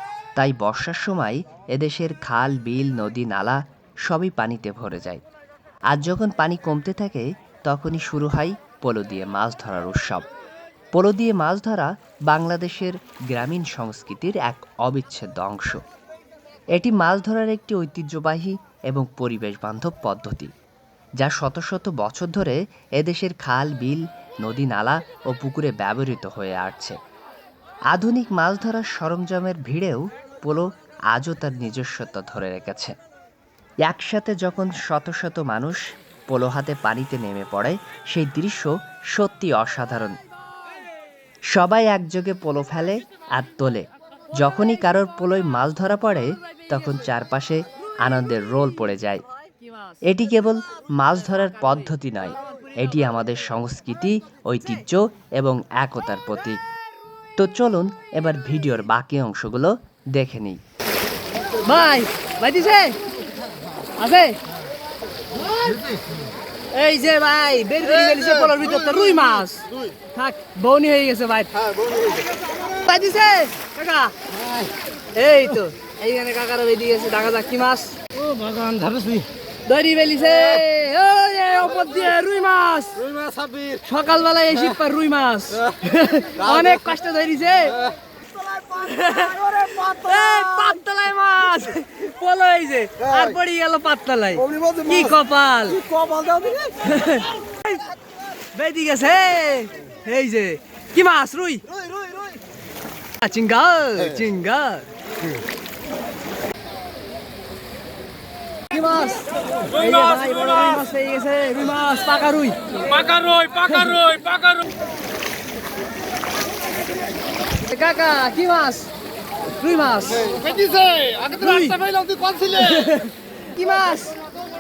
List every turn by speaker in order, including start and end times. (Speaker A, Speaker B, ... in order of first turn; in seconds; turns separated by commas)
Speaker A: 0.4-5.2, Speaker A: 5.9-10.3, Speaker A: 10.9-15.8, Speaker A: 16.8-20.5, Speaker A: 21.2-27.0, Speaker A: 27.9-33.0, Speaker A: 33.9-40.2, Speaker A: 41.5-49.2, Speaker A: 50.0-56.6, Speaker A: 57.4-60.6, Speaker B: 61.6-63.0, Speaker B: 64.0-64.4, Speaker B: 66.7-71.5, Speaker C: 67.9-69.9, Speaker C: 71.7-72.2, Speaker B: 73.0-74.1, Speaker C: 73.6-74.0, Speaker C: 75.2-76.1, Speaker B: 75.2-78.0, Speaker C: 78.2-79.2, Speaker B: 79.7-83.0, Speaker C: 83.1-83.9, Speaker B: 83.9-87.8, Speaker C: 85.7-87.0, Speaker C: 88.6-91.0, Speaker B: 88.9-95.8, Speaker C: 93.0-93.4, Speaker C: 94.4-96.9, Speaker B: 96.8-97.8, Speaker B: 98.6-101.6, Speaker B: 103.3-104.8, Speaker C: 104.0-104.4, Speaker C: 108.7-109.0, Speaker B: 109.0-109.2, Speaker C: 109.7-110.8, Speaker B: 109.8-114.1, Speaker C: 111.7-112.4, Speaker C: 112.9-114.6, Speaker C: 117.7-118.0, Speaker B: 117.9-118.9, Speaker C: 119.6-123.0, Speaker B: 119.6-120.3, Speaker B: 121.3-121.8, Speaker B: 122.6-123.1, Speaker B: 123.7-124.2